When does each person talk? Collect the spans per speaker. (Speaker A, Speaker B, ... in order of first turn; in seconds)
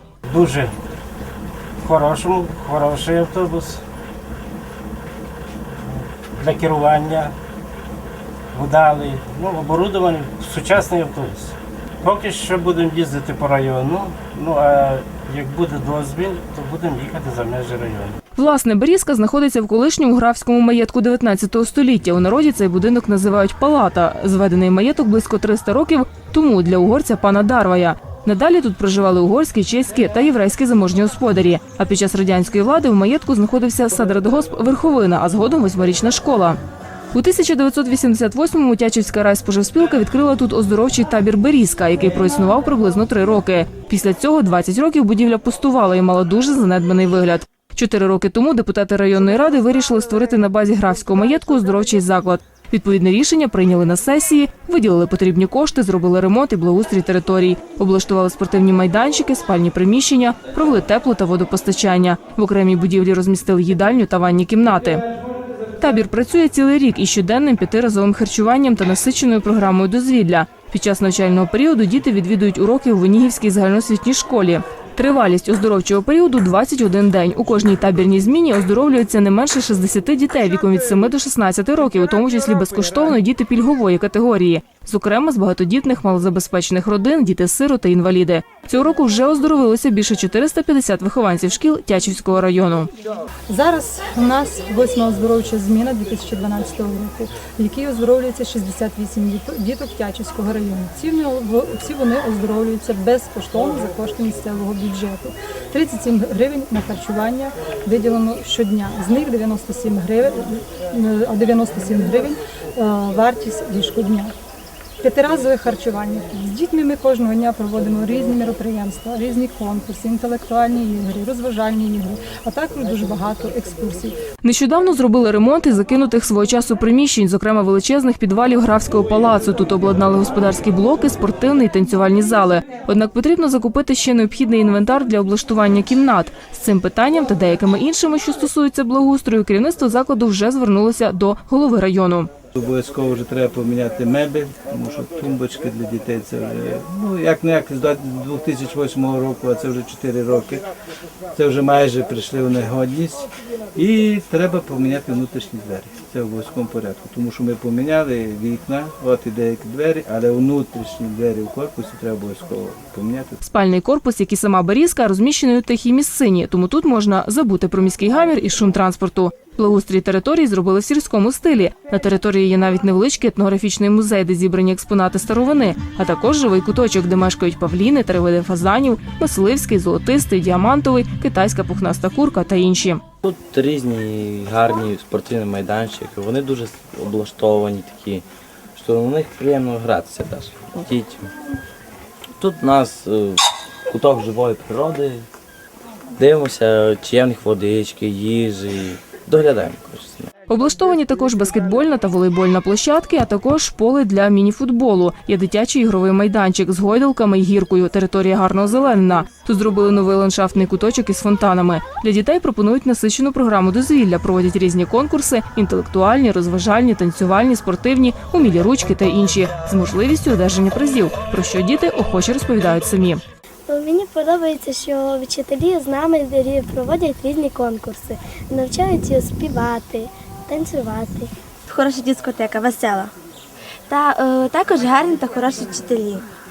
Speaker A: 0.3-0.7, 1.8-3.8, 5.9-7.3, 8.5-18.1
Speaker B: 18.4-36.6, 37.1-65.0, 65.8-92.9, 124.4-142.3, 163.4-183.0, 200.5-223.2
Speaker C: 93.5-114.3, 115.0-124.2
Speaker D: 142.6-150.7, 151.3-163.4
Speaker E: 183.2-191.3, 192.4-195.3, 196.2-200.3
Speaker F: 223.7-231.3
Speaker G: 231.7-233.1, 233.9-236.2